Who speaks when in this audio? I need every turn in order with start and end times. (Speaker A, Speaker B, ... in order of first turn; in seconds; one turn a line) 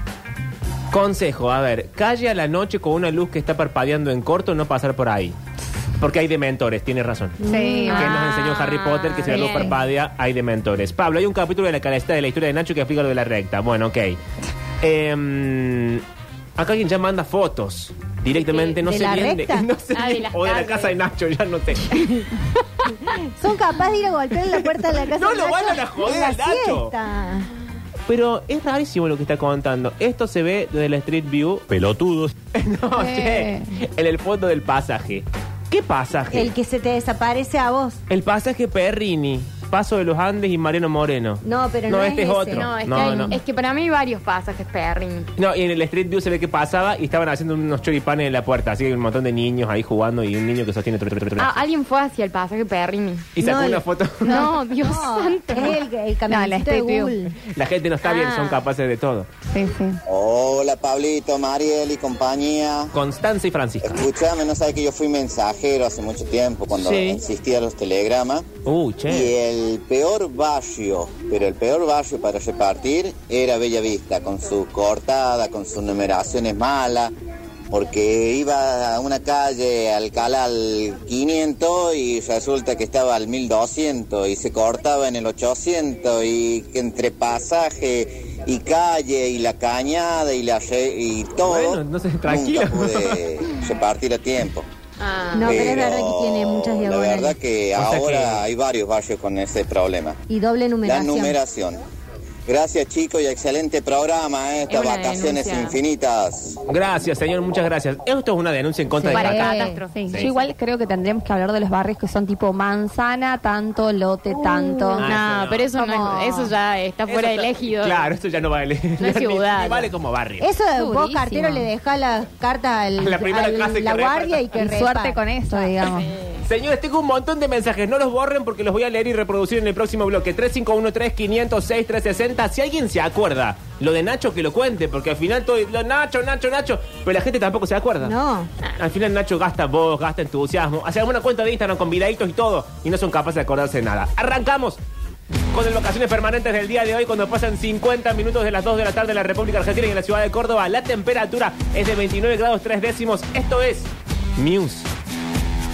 Speaker A: 0.9-5.4
Speaker A: 6.0-14.2
Speaker B: 7.4-8.2
Speaker C: 7.4-9.8
Speaker D: 9.3-9.6
Speaker A: 14.8-16.0
Speaker A: 16.6-22.1
Speaker D: 18.5-18.8
Speaker B: 18.8-19.7
Speaker D: 19.9-20.9
Speaker B: 21.9-22.3
Speaker B: 22.8-27.5
Speaker A: 25.0-26.9
Speaker A: 28.1-31.8
Speaker A: 32.5-36.5
Speaker C: 33.0-33.7
Speaker B: 36.3-38.0
Speaker A: 38.1-43.4
Speaker B: 41.4-43.4
Speaker D: 42.5-45.3
Speaker A: 45.4-51.5
Speaker D: 51.4-53.3
Speaker A: 53.3-54.5
Speaker B: 53.4-57.4
Speaker D: 54.2-55.8
Speaker C: 56.3-57.1
Speaker A: 57.5-59.3
Speaker D: 58.0-58.6
Speaker C: 59.5-60.0
Speaker E: 60.1-62.9
Speaker A: 62.9-64.0
Speaker E: 63.8-68.5
Speaker A: 66.7-67.2
Speaker A: 68.6-69.3
Speaker E: 69.1-77.1
Speaker E: 77.7-94.6
Speaker A: 91.4-93.2
Speaker D: 95.0-95.8
Speaker B: 95.3-97.3
Speaker E: 95.4-100.2
Speaker A: 97.8-98.4
Speaker B: 100.3-101.3
Speaker E: 100.8-101.8
Speaker E: 102.5-106.6
Speaker D: 104.7-105.8
Speaker A: 106.7-110.3
Speaker C: 109.1-115.1
Speaker D: 109.1-110.5
Speaker B: 114.3-115.0
Speaker A: 115.0-115.8
Speaker D: 115.0-118.1
Speaker C: 115.8-116.5
Speaker A: 117.1-120.5
Speaker D: 119.0-119.9
Speaker B: 120.4-125.7
Speaker C: 120.7-121.7
Speaker A: 123.0-124.5
Speaker C: 124.5-126.1
Speaker D: 125.8-126.4
Speaker A: 126.4-138.1
Speaker B: 138.0-138.5
Speaker A: 138.8-144.8
Speaker A: 145.5-154.9